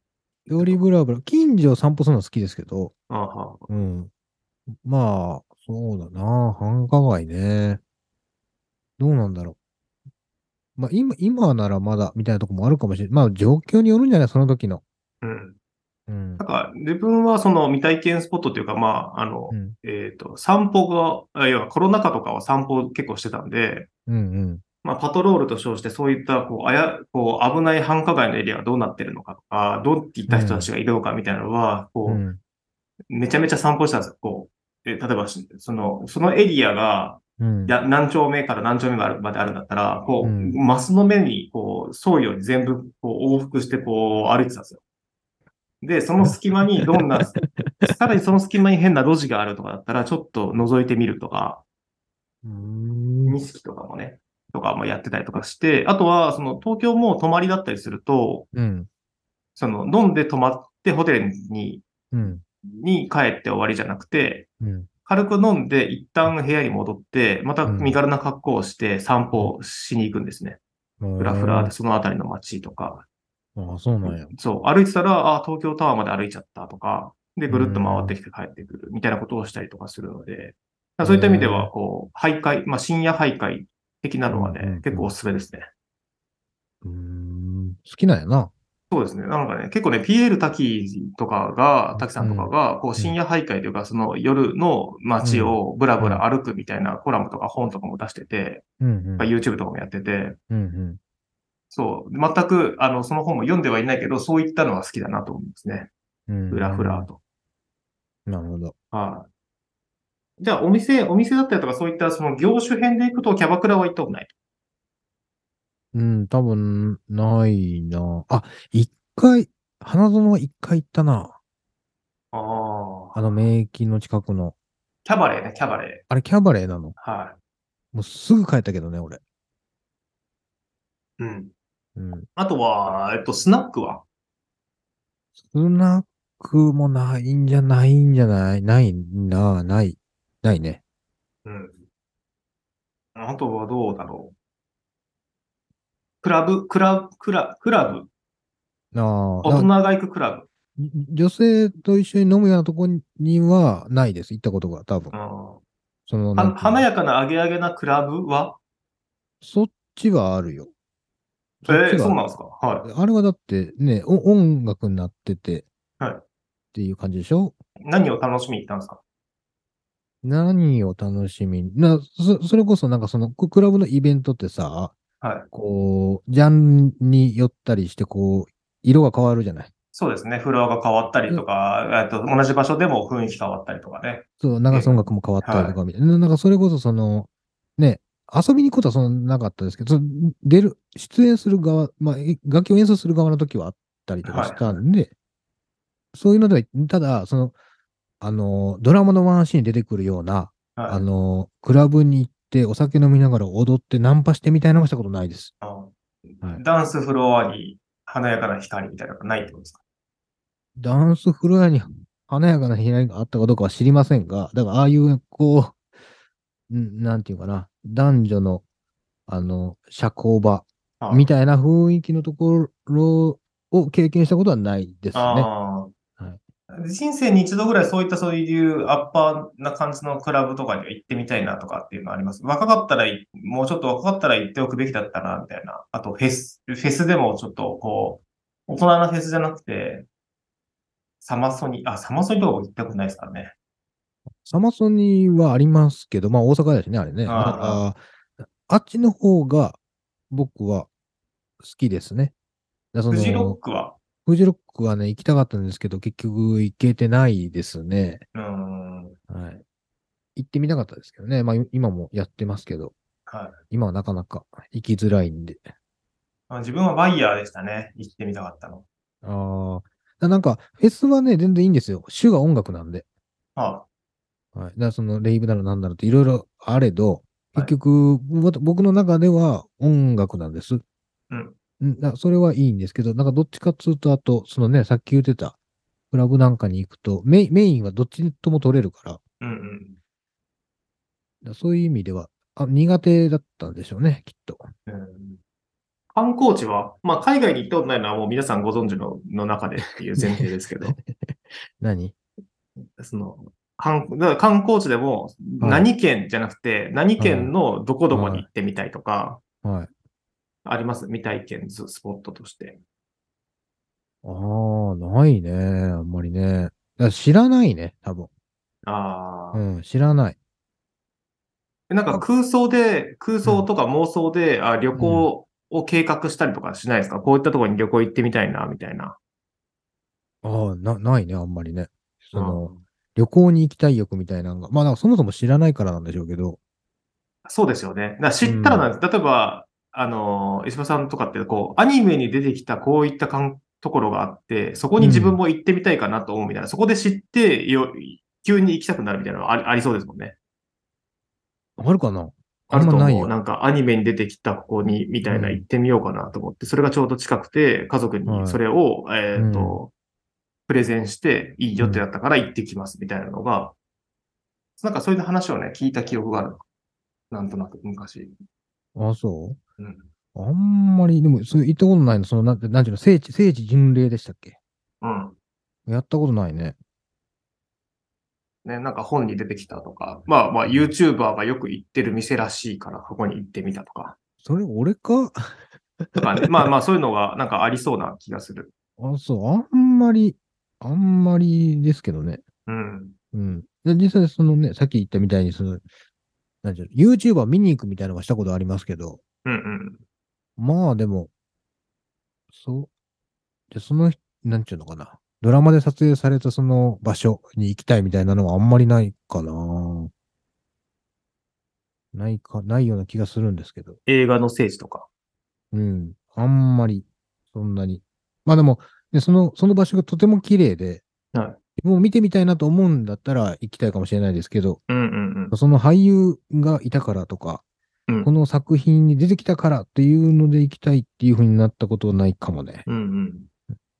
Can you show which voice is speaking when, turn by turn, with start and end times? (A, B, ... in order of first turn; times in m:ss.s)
0:00.5-0:02.9 A
0:00.5-0:00.8 B
0:03.1-0:03.7 B
0:03.7-0:04.1 A
0:04.7-0:07.8 A
0:09.0-0:09.6 A
0:10.8-0:14.8 A
0:15.2-0:15.5 B
0:16.1-0:16.4 A
0:16.4-0:23.9 B
0:19.5-0:19.8 A
0:24.1-0:24.6 A
0:24.8-0:32.2 B
0:30.3-0:30.7 A
0:32.0-0:32.4 A
0:33.1-0:44.8 B
0:37.4-0:37.7 A
0:40.2-0:40.6 A
0:45.8-0:51.6 B
0:47.4-0:47.9 A
0:52.4-0:53.4 A
0:53.3-0:58.5 B
0:58.5-0:58.9 A
0:59.6-1:01.8 B
1:02.1-1:02.4 A
1:02.6-1:04.5 B
1:04.6-1:04.9 A
1:05.0-1:10.6 B
1:07.6-1:08.0 A
1:11.0-1:11.7 A
1:11.2-1:13.0 B
1:13.6-1:14.3 A
1:14.0-1:25.7 B
1:17.5-1:18.1 A
1:21.0-1:21.7 A
1:24.3-1:25.1 A
1:26.8-1:28.5 A
1:28.9-1:38.6 B
1:31.9-1:33.2 A
1:35.2-1:36.2 A
1:38.8-1:39.3 A
1:39.2-1:40.4 B
1:40.5-1:41.0 A
1:41.7-1:45.9 B
1:46.3-1:47.1 A
1:46.5-1:47.2 B
1:48.3-1:48.7 A
1:48.9-1:49.3 B
1:50.4-1:54.3 B
1:55.9-2:01.4 A
2:02.3-2:03.3 B
2:03.1-2:04.5 A
2:05.0-2:06.0 B
2:06.1-2:06.9 A
2:07.0-2:07.4 B
2:07.9-2:09.2 A
2:11.2-2:11.5 B
2:12.0-2:12.3 A
2:12.4-2:14.0 B
2:15.4-2:20.8 A
2:21.4-2:21.8 B
2:23.1-2:24.3 B
2:26.2-2:28.1 B
2:28.9-2:29.7 A
2:29.4-2:30.5 B
2:30.8-2:35.1 A
2:35.1-2:35.6 B
2:36.1-2:36.8 A
2:36.4-2:38.6 B
2:39.4-2:40.7 A
2:41.6-2:42.2 A
2:41.7-2:42.9 B
2:42.8-2:45.6 A
2:46.7-2:47.5 A
2:47.8-2:49.0 B
2:50.2-2:55.0 A
2:55.2-2:55.5 B
2:55.5-2:59.7 A
2:59.9-3:05.8 B
3:04.4-3:15.1 A
3:14.2-3:14.8 B
3:16.1-3:17.5 A
3:18.2-3:25.5 A
3:20.8-3:21.0 B
3:25.6-3:29.8 B
3:30.8-3:35.8 A
3:36.7-3:38.6 A
3:39.3-3:45.5 A
3:41.0-3:41.3 B
3:45.1-3:45.9 B
3:46.7-4:00.1 B
4:01.2-4:03.5 B
4:04.4-4:08.0 A
4:07.2-4:07.8 B
4:08.6-4:09.8 A
4:10.3-4:10.9 A
4:11.6-4:12.3 A
4:12.9-4:13.6 A
4:13.1-4:14.0 B
4:14.2-4:18.2 A
4:18.3-4:19.2 B
4:19.3-4:19.6 A
4:20.4-4:22.9 A
4:23.3-4:23.6 B
4:23.7-4:25.6 A
4:26.5-4:28.8 B
4:29.2-4:33.0 A
4:33.6-4:33.8 B
4:34.5-4:40.8 A
4:41.8-4:45.6 A
4:46.1-4:49.2 A
4:49.4-4:50.0 B
4:51.4-4:54.7 A
4:54.9-4:55.4 B
4:56.1-5:01.0 B
5:00.2-5:02.1 A
5:02.9-5:09.4 B
5:05.6-5:05.9 A
5:07.2-5:07.5 A
5:08.1-5:08.4 A
5:09.6-5:09.9 A
5:10.6-5:12.8 B
5:14.2-5:18.3 A
5:18.8-5:19.6 B
5:19.5-5:20.4 A
5:21.9-5:29.2 B
5:25.0-5:25.3 A
5:30.4-5:36.6 A
5:32.3-5:32.8 B
5:37.4-5:50.3 B
5:38.4-5:38.9 A
5:45.0-5:45.4 A
5:51.8-5:53.3 A
5:52.7-5:59.9 B
5:55.2-5:55.6 A
5:58.2-5:58.6 A
5:59.4-5:59.8 A
6:00.7-6:03.7 B
6:01.8-6:02.0 A
6:04.8-6:06.6 B
6:07.3-6:08.3 B
6:09.0-6:09.6 A
6:09.8-6:10.1 B
6:10.3-6:14.6 A
6:15.0-6:15.4 B
6:15.9-6:16.8 A
6:18.6-6:24.1 B
6:24.4-6:26.5 A
6:26.1-6:28.7 B
6:29.0-6:32.4 A
6:32.7-6:33.1 B
6:33.3-6:35.8 A
6:36.6-6:39.2 A
6:39.4-6:40.0 B
6:40.6-6:41.3 A
6:42.5-6:42.9 A
6:43.7-6:50.1 A
6:52.1-6:54.0 A
6:54.1-6:55.1 B
6:55.7-7:01.0 A
7:01.8-7:04.8 A
7:04.9-7:05.5 B
7:05.5-7:07.6 A
7:08.2-7:12.8 A
7:12.9-7:13.5 B